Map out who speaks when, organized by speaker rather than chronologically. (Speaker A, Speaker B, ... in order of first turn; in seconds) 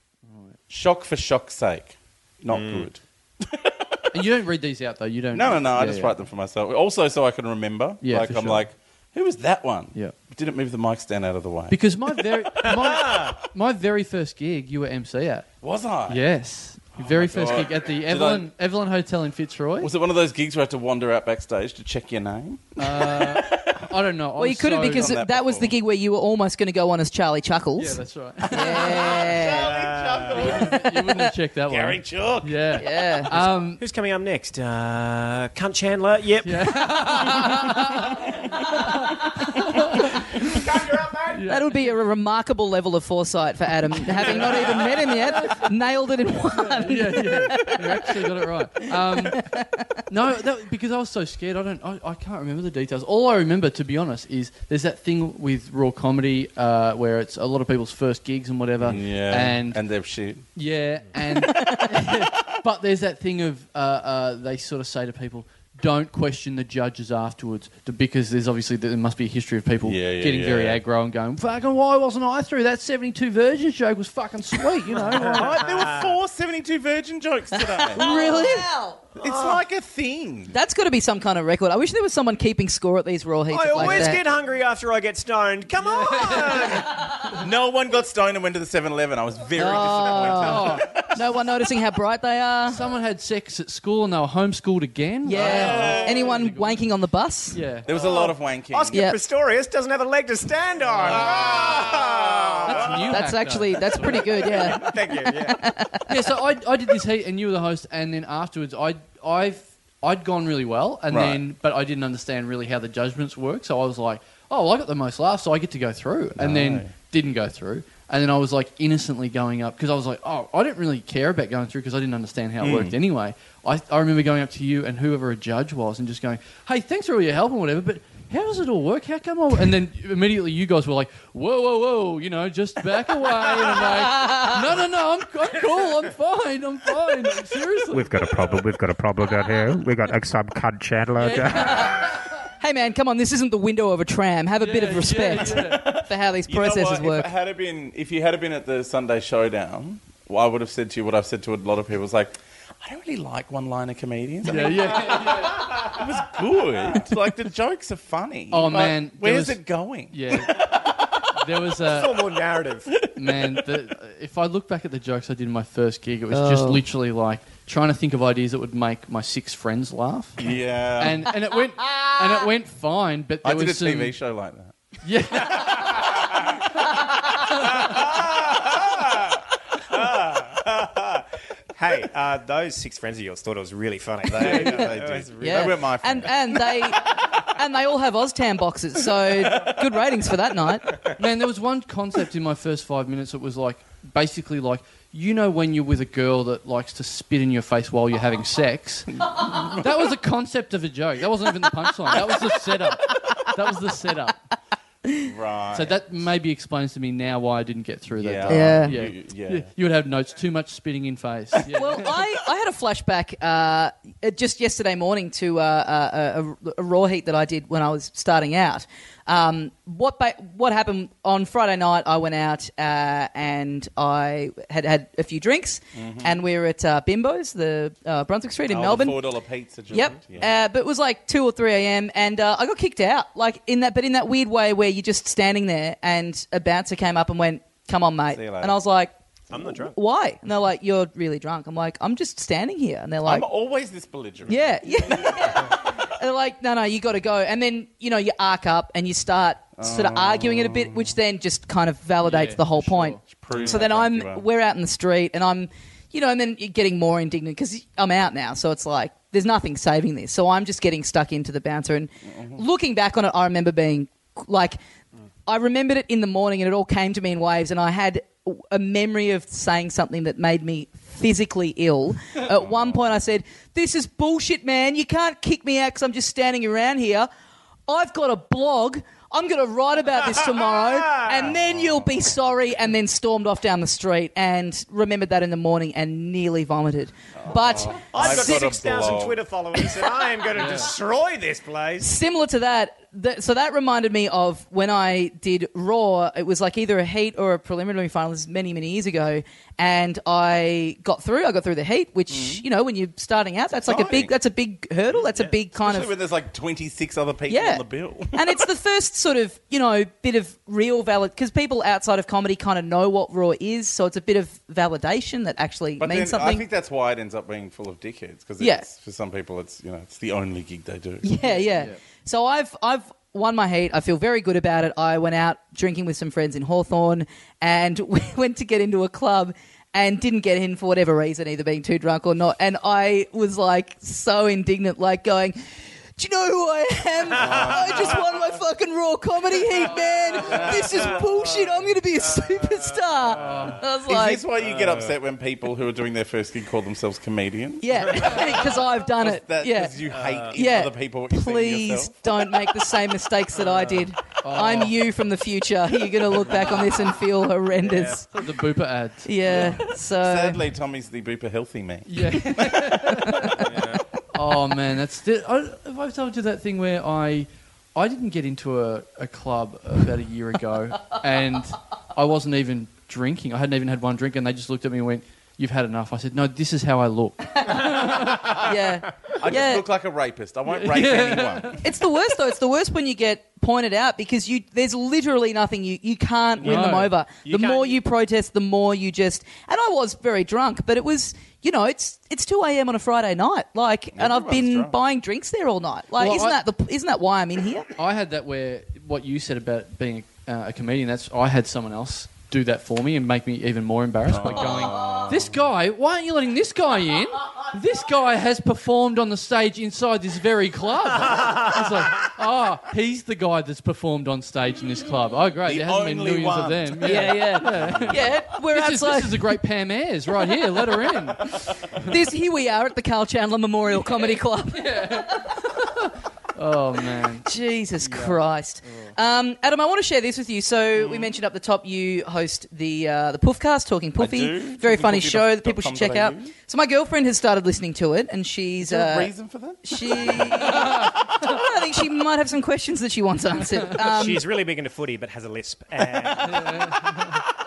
Speaker A: 0.3-0.6, 4.1-6.2, 8.0-8.6, 11.7-15.5, 16.1-19.9, 22.8-25.1, 27.8-29.1, 30.3-33.8, 36.4-40.7, 41.3-41.8, 44.0-45.7, 46.5-49.5, 50.1-59.8, 60.5-75.6, 83.8-84.1, 85.8-86.9, 90.4-90.9, 92.7-96.8, 97.5-97.9, 102.7-104.4, 106.1-138.6, 141.1-142.3, 144.6-145.9, 154.4-155.9, 158.5-159.6, 160.1-160.7, 161.3-162.3, 163.1-174.1, 175.0-176.1, 191.2-204.4, 205.7-212.2, 252.2-253.2, 290.6-290.9, 321.6-321.9, 339.9-340.7, 343.3-343.8, 354.4-355.0, 358.3-359.8, 362.1-363.7, 364.3-378.6, 380.7-381.9, 386.6-387.1, 396.2-396.6, 398.0-421.6, 424.7-427.4, 428.0-429.1, 446.6-446.9
Speaker B: 0.7-4.1, 5.3-11.8, 15.6-16.2, 17.0-18.5, 19.8-23.8, 24.8-25.7, 28.4-32.6, 58.8-60.4, 69.8-70.8, 74.9-78.5, 79.2-80.5, 87.3-91.5, 95.3-96.3, 97.8-99.0, 100.9-103.1, 111.1-111.4, 116.4-116.9, 122.6-123.0, 145.6-161.0, 163.0-163.5, 170.4-171.3, 173.4-174.8, 175.3-176.5, 184.2-186.5, 189.3-189.8, 199.3-199.9, 205.2-206.1, 208.2-209.7, 225.9-226.4, 228.7-230.5, 238.3-238.8, 243.2-245.8, 249.8-251.1, 253.3-254.4, 272.6-273.0, 281.3-282.5, 287.4-289.4, 302.3-302.6, 303.9-304.3, 305.1-308.6, 316.0-321.4, 337.4-338.1, 340.4-341.2, 344.1-352.2, 359.4-363.6, 379.4-381.8, 394.1-395.0, 404.3-405.5, 415.6-418.3, 434.2-436.5, 438.8-441.1
Speaker C: 2.5-2.9, 12.6-13.4, 29.5-30.7, 33.8-36.5, 44.3-44.7, 74.9-76.1, 78.0-78.6, 79.2-79.6, 83.5-87.2, 95.5-96.0, 97.9-103.1, 104.1-105.6, 154.5-155.5, 161.8-162.9, 179.8-185.9, 239.5-239.9, 253.5-253.8, 288.1-292.1, 337.4-338.1, 343.4-343.7, 344.6-345.2, 348.1-348.4, 350.1-350.6, 357.8-358.3, 363.6-364.0, 387.4-388.0, 443.9-447.2
Speaker D: 24.4-29.7, 32.8-33.3, 41.4-48.2, 49.1-50.0, 61.2-61.9, 77.9-79.0, 80.5-84.2, 89.5-92.8, 95.2-97.6, 98.9-99.2, 103.1-106.1, 133.8-134.7, 141.5-147.3, 166.3-166.8, 184.6-184.9, 185.4-190.9, 208.5-208.9, 211.7-229.2, 229.9-243.5, 244.4-264.8, 265.4-277.3, 277.9-288.6, 292.0-306.1, 307.5-316.6, 318.6-318.9, 321.2-335.6, 336.2-344.4, 347.8-349.9, 350.5-358.3, 359.2-360.6, 363.2-363.6, 377.7-378.0, 378.5-379.8, 381.8-397.9, 404.9-405.3, 417.0-419.4, 422.0-425.7, 427.4-439.3, 439.8-444.4
Speaker E: 137.9-141.9